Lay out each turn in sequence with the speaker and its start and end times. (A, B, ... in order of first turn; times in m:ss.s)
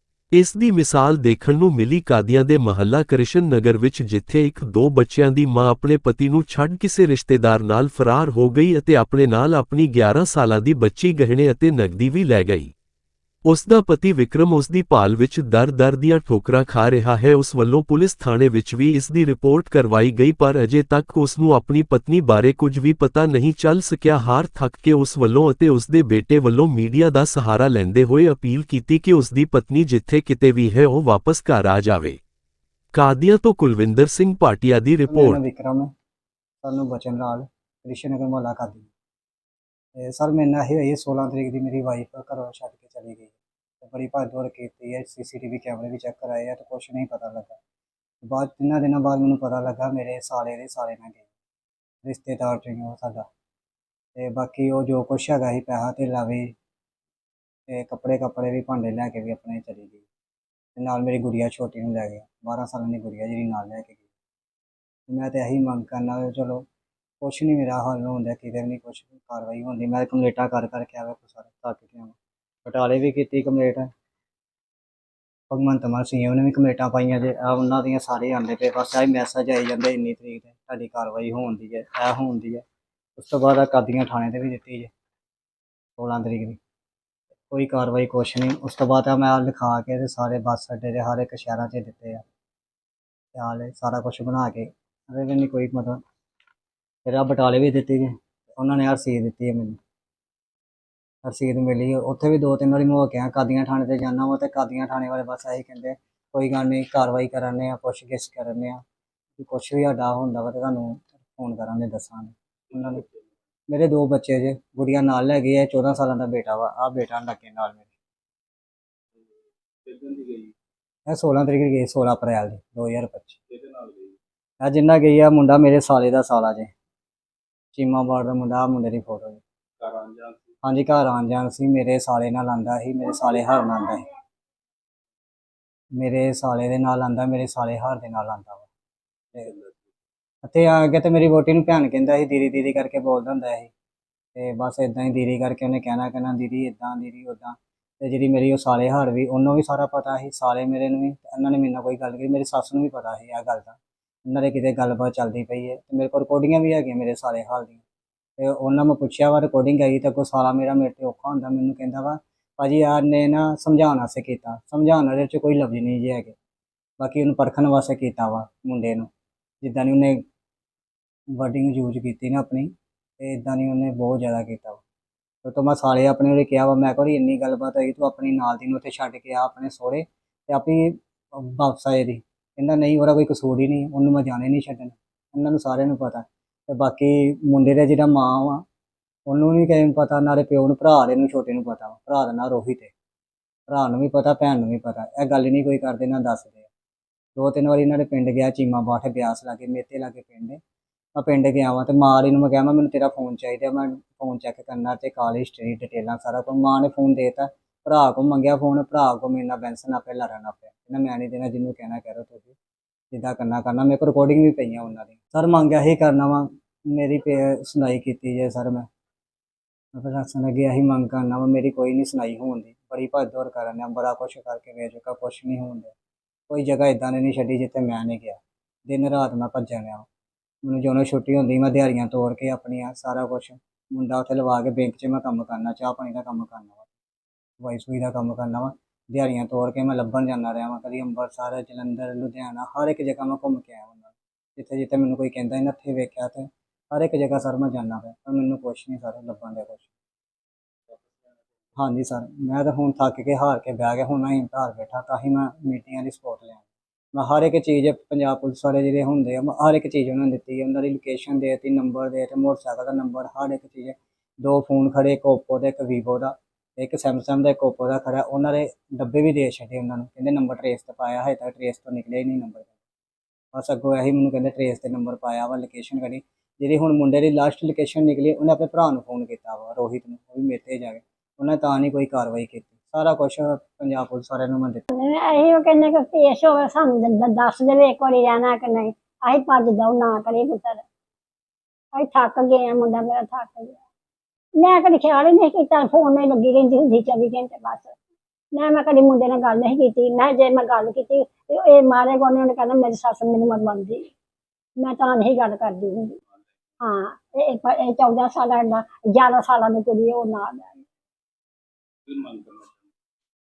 0:00.3-0:12.7 A
0:13.4-0:32.2 A
0:32.9-0:35.4 A
0:35.1-0:35.9 B
0:36.6-0:38.9 B
0:40.0-0:47.6 B
0:48.2-0:51.3 B
0:52.0-0:53.3 B
0:54.2-0:56.5 B
0:57.7-1:00.0 B
1:00.8-1:04.0 B
1:05.1-1:06.6 B
1:07.2-1:12.1 B
1:12.6-1:13.9 B
1:15.5-1:22.6 B
1:23.2-1:24.9 B
1:26.0-1:26.6 B
1:27.5-1:32.2 B
1:33.3-1:36.0 B
1:37.0-1:39.8 B
1:41.2-1:48.8 B
1:49.4-1:53.0 B
1:53.7-1:57.9 B
1:59.8-2:00.5 C
2:01.0-2:03.4 B
2:03.5-2:04.1 C
2:04.6-2:06.7 B
2:07.7-2:09.4 B
2:09.8-2:10.4 C
2:10.6-2:14.1 B
2:15.9-2:18.7 B
2:20.4-2:23.7 B
2:24.3-2:37.8 B
2:38.4-2:46.3 B
2:47.0-2:49.1 B
2:49.6-2:50.2 B
2:51.3-2:54.8 B
2:55.4-3:08.6 B
3:09.3-3:12.9 B
3:13.7-3:16.7 B
3:17.4-3:20.6 B
3:21.2-3:32.5 B
3:33.1-3:38.9 B
3:39.9-3:45.9 B
3:46.5-3:50.0 B
3:50.6-3:56.9 B
3:57.6-4:09.9 B
4:10.9-4:11.3 C
4:11.8-4:16.6 B
4:17.1-4:32.7 B
4:33.5-4:44.8 B
4:44.9-4:50.8 D
4:51.9-4:53.8 D
4:54.6-4:57.9 D
4:58.5-5:04.1 D
5:04.8-5:06.2 D
5:06.8-5:10.8 D
5:12.1-5:12.8 C